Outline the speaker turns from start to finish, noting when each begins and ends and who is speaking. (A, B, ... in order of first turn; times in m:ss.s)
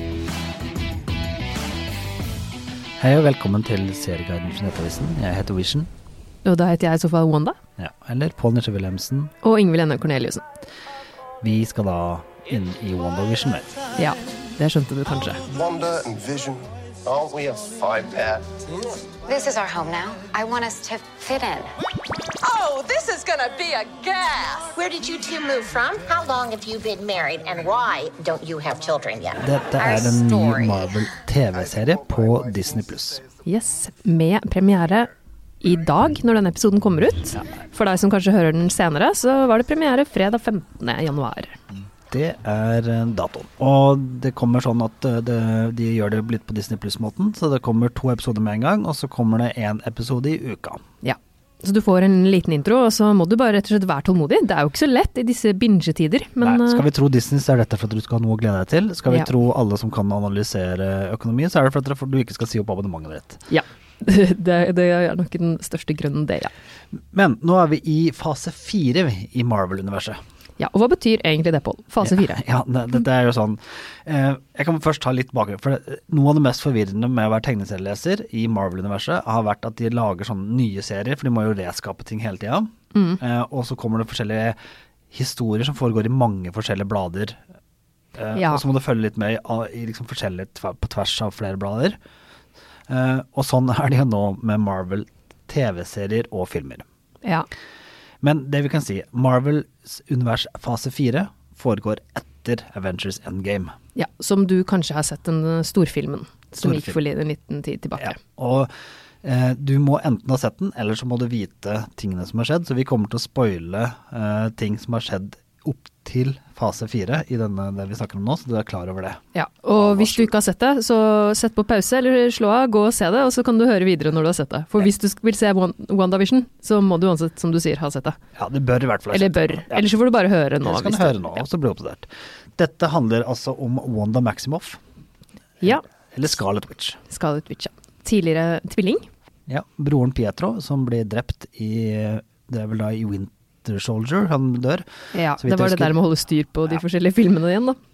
0:03.0-0:05.9 A
0:06.4-0:07.6 B
0:07.8-0:09.3 A
0:09.4-0:10.4 B
0:11.4-0:13.8 A
0:14.0-0:15.4 B
0:15.5-0:18.8 C
0:19.2-0:21.7 D
0:22.4-0:24.7 E
0:24.7-0:31.0 F
0:29.4-0:33.2 A
0:33.4-0:41.5 B
0:42.1-0:50.8 A
0:51.0-0:56.8 B
0:56.4-1:03.4 A
1:03.5-1:06.5 B
1:07.1-1:10.2 A
1:10.6-1:12.4 B
1:12.0-1:24.6 A
1:22.9-1:23.2 B
1:25.1-1:27.4 A
1:28.2-1:32.0 A
1:28.3-1:28.6 B
1:32.9-1:36.8 A
1:38.2-1:43.7 A
1:44.0-1:48.2 B
1:46.6-1:47.0 A
1:48.0-1:48.7 A
1:49.2-1:59.2 A
1:59.3-2:08.2 B
1:59.8-2:00.3 A
2:08.4-2:09.9 A
2:09.1-2:11.4 B
2:10.6-2:14.8 A
2:15.6-2:17.0 A
2:17.1-2:19.0 B
2:19.5-2:24.8 A
2:25.1-2:27.8 B
2:25.4-2:26.0 A